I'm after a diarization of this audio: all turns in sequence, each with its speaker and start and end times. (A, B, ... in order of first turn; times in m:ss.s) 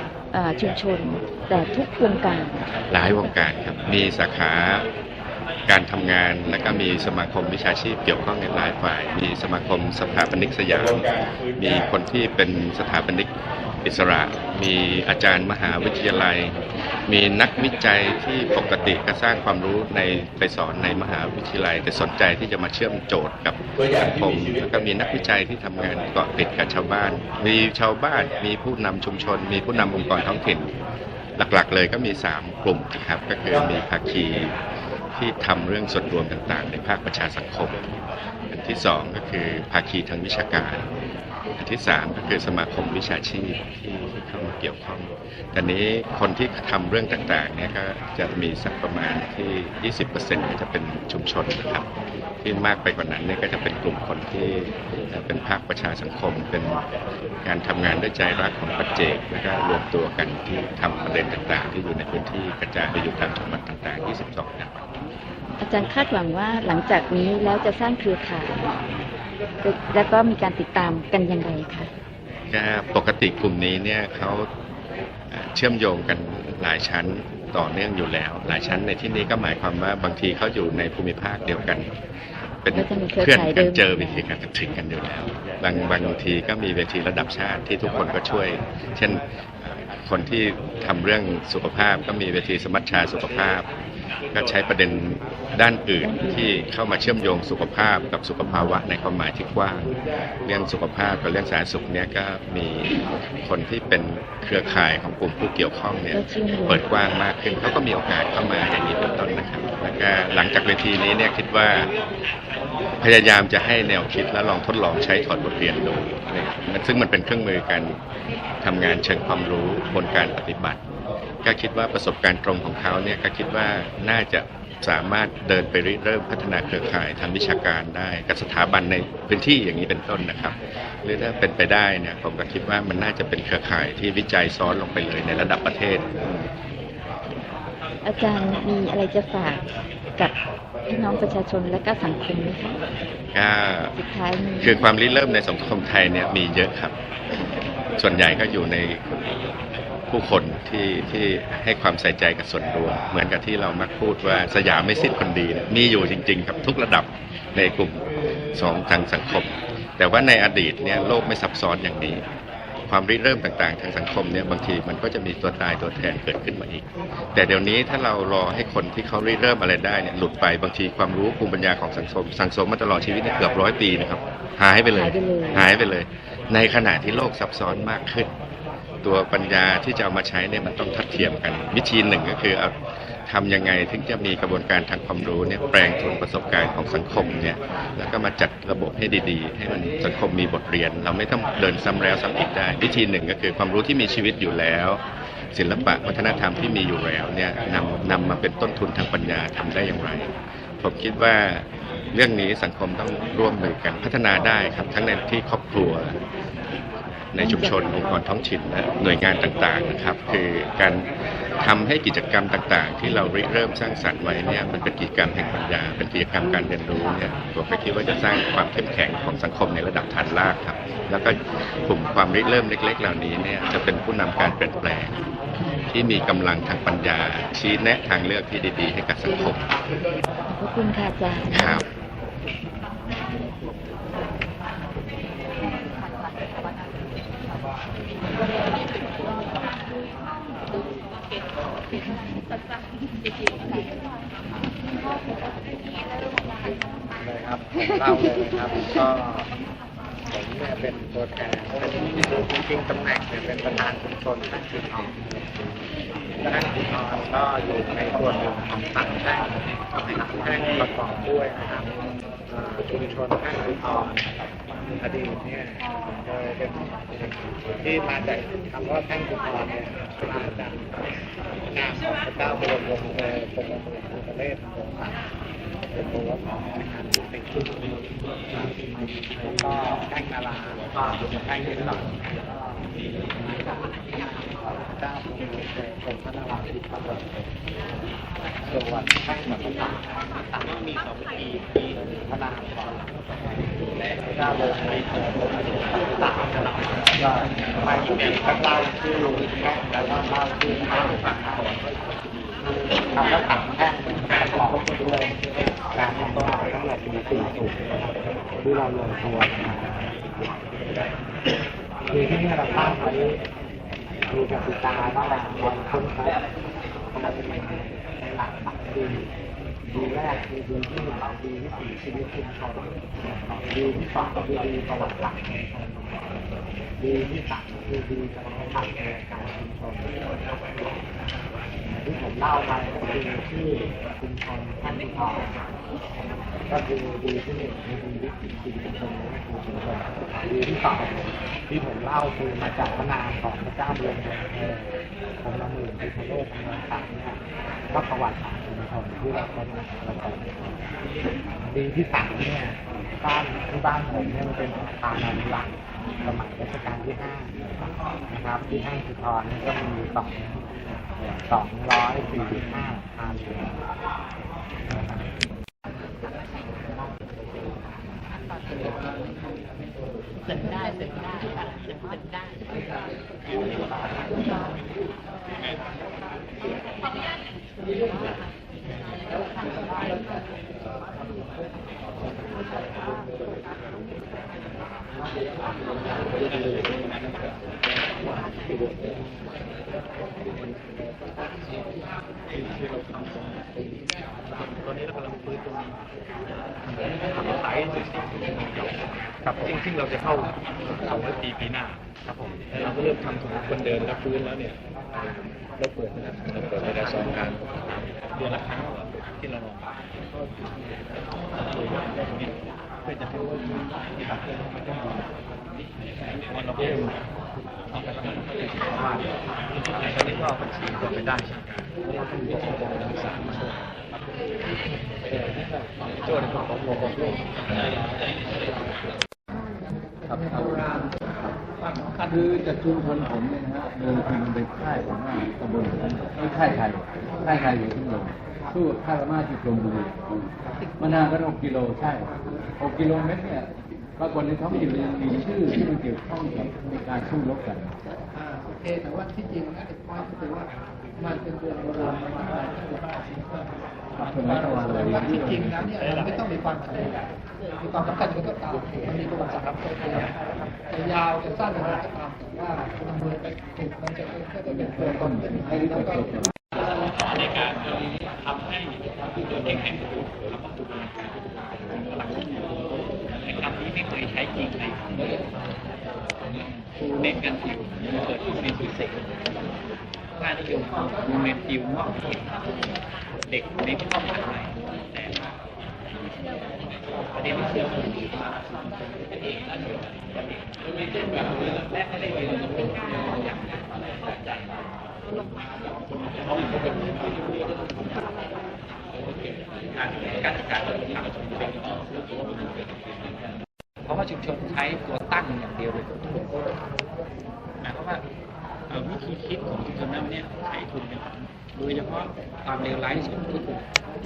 0:00.3-0:02.6 A
0:02.9-0:04.9 B
0:05.7-0:13.3 B
0:13.8-0:16.6 B
0:17.1-0:30.7 B
0:31.4-0:34.5 B
0:35.2-0:37.9 B
0:38.5-0:40.9 B
0:41.6-0:51.9 B
0:52.4-0:56.8 B
0:57.4-1:04.8 B
1:05.6-1:08.5 A
1:09.6-1:11.9 A
1:12.5-1:14.5 B
1:15.3-1:21.9 B
1:22.6-1:33.7 B
1:22.7-1:24.3 A
1:34.3-1:39.9 B
1:36.0-1:36.5 A
1:40.4-1:51.9 B
1:46.1-1:46.8 A
1:53.0-1:58.0 B
1:58.6-2:00.8 B
2:01.4-2:16.1 B
2:18.0-2:19.6 A
2:20.9-2:22.8 A
2:23.3-2:23.9 B
2:24.0-2:24.8 A
2:24.6-2:26.9 B
2:28.0-2:29.2 B
2:30.1-2:42.2 B
2:42.9-2:58.3 B
2:54.9-2:55.7 A
2:59.0-3:02.7 B
3:03.3-3:15.0 B
3:15.5-3:26.2 B
3:27.3-3:31.1 B
3:27.4-3:27.7 A
3:31.6-3:45.2 B
3:45.9-3:49.6 B
3:50.5-3:51.8 A
3:51.5-3:51.8 B
4:07.2-4:09.5 C
4:10.3-4:15.4 C
4:16.4-4:21.9 C
4:22.5-4:24.3 C
4:25.0-4:31.0 C
4:31.7-4:35.2 C
4:35.9-4:38.0 C
4:38.5-4:47.5 C
4:48.6-4:51.0 C
4:52.1-4:53.6 C
4:54.2-5:01.8 C
5:02.8-5:05.3 C
5:05.9-5:10.1 C
5:12.1-5:13.4 C
5:14.3-5:16.4 C
5:17.1-5:19.3 C
5:19.9-5:26.4 C
5:27.0-5:30.2 C
5:32.0-5:35.6 C
5:36.7-5:50.6 C
5:51.6-5:57.7 C
5:58.3-6:00.6 C
6:01.4-6:03.8 C
6:32.5-6:33.9 D
6:34.5-6:36.0 D
6:37.0-6:44.8 D
6:45.8-6:47.7 D
6:48.3-6:49.9 D
6:51.7-6:55.3 D
6:56.4-6:57.2 D
6:57.9-6:59.3 D
7:00.0-7:03.8 D
7:05.3-7:05.7 D
7:06.2-7:07.9 D
7:10.4-7:10.8 E
7:12.2-7:20.3 E
7:21.0-7:27.9 E
7:28.6-7:30.5 F
7:31.6-7:32.0 F
7:34.2-7:35.7 E
7:36.6-7:37.0 F
7:38.0-7:39.7 F
7:41.4-7:43.0 F
7:43.7-7:44.5 F
7:44.9-7:46.4 E
7:45.7-7:46.3 F
7:47.1-7:52.9 D
7:53.4-7:55.3 D
7:57.0-7:59.3 D
8:00.4-8:02.6 D
8:03.4-8:05.5 D
8:07.4-8:08.5 D
8:09.4-8:10.1 D
8:11.3-8:13.9 D
8:16.4-8:17.6 D
8:19.9-8:22.7 D
8:24.0-8:26.5 D
8:27.8-8:28.2 D
8:28.9-8:33.8 D